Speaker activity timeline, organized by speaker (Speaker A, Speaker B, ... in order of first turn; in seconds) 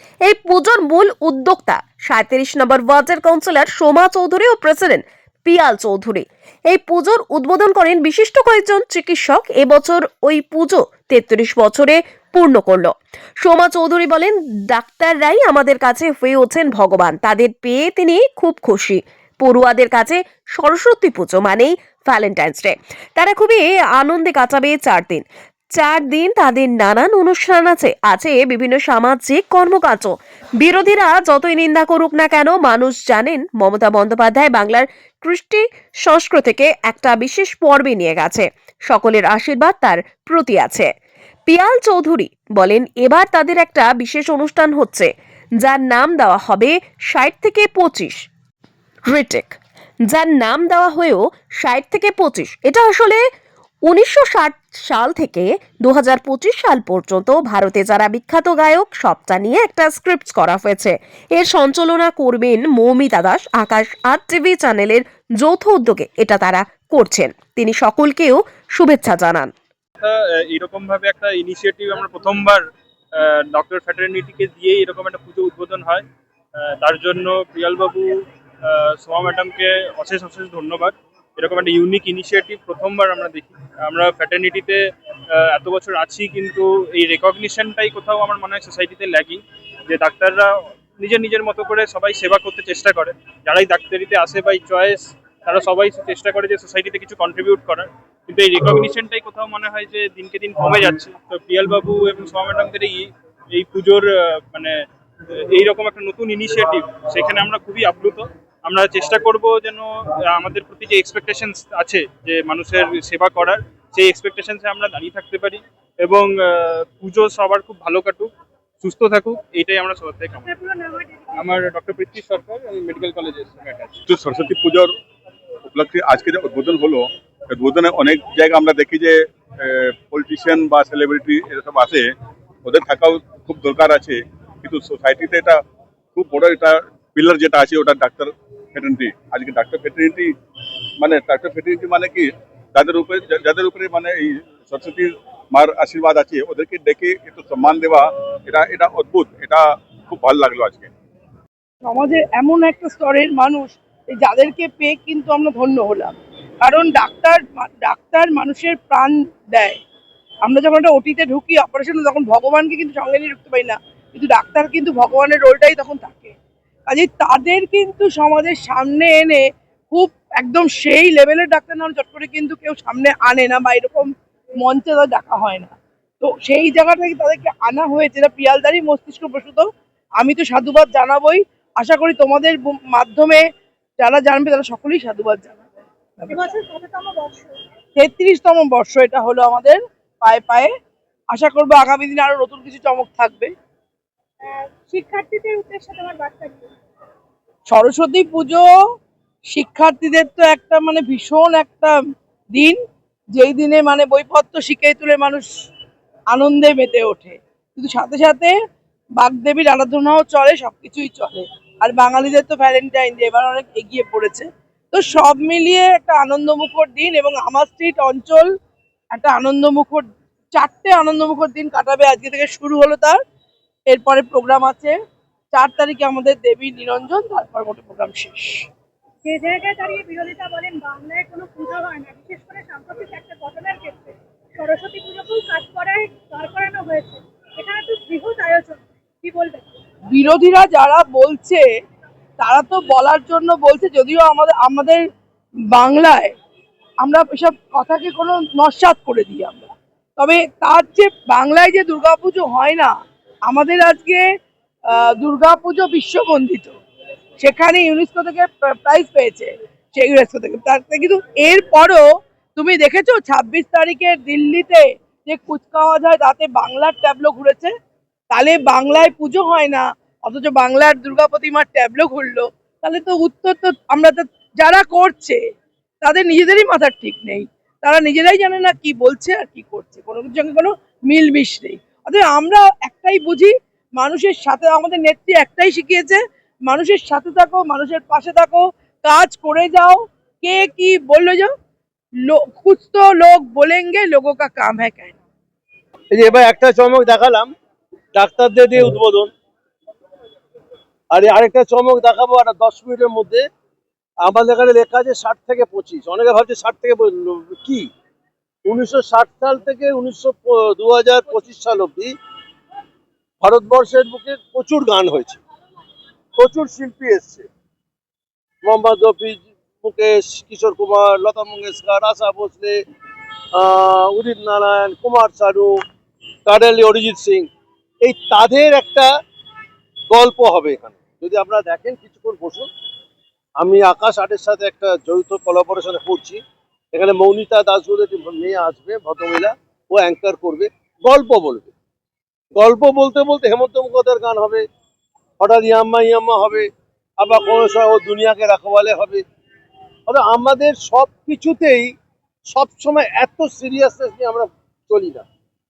Speaker A: 0.2-25.2, 25.8-40.9, 41.5-48.1, 49.1-49.6, 50.1-53.2, 53.9-69.5
Speaker B: 70.0-72.6, 73.2-76.0, 76.6-84.8, 85.3-104.8, 105.4-120.6, 121.3-124.0
Speaker C: 120.6-121.3, 186.3-187.5, 194.4-196.7, 229.2-239.8
Speaker D: 124.1-124.9, 125.7-132.1, 132.6-135.6, 136.1-140.3, 141.0-150.9
Speaker E: 151.8-159.8, 160.4-166.3, 166.9-174.1, 174.6-179.7, 180.2-183.4, 184.0-185.7, 187.9-190.7, 191.3-193.5, 197.7-198.7, 199.5-202.0, 202.5-202.8, 203.3-205.5, 206.3-208.5, 209.2-218.5, 219.1-223.2, 223.9-224.9, 225.5-228.7, 240.1-241.6, 242.4-245.0, 245.7-246.3, 247.0-252.9, 253.5-254.2, 254.9-256.7, 257.4-267.7, 268.3-275.4, 276.0-291.5, 292.2-295.2
Speaker F: 296.1-297.5, 298.1-299.3, 301.1-303.4, 304.2-307.9, 308.6-312.1, 313.4-315.4, 316.4-317.5, 318.6-322.8, 323.5-325.8, 326.4-327.5, 328.0-329.1, 330.1-332.7, 333.6-336.4, 336.9-341.7, 342.5-344.6, 345.4-346.7, 347.2-349.2, 350.1-351.9, 352.5-355.2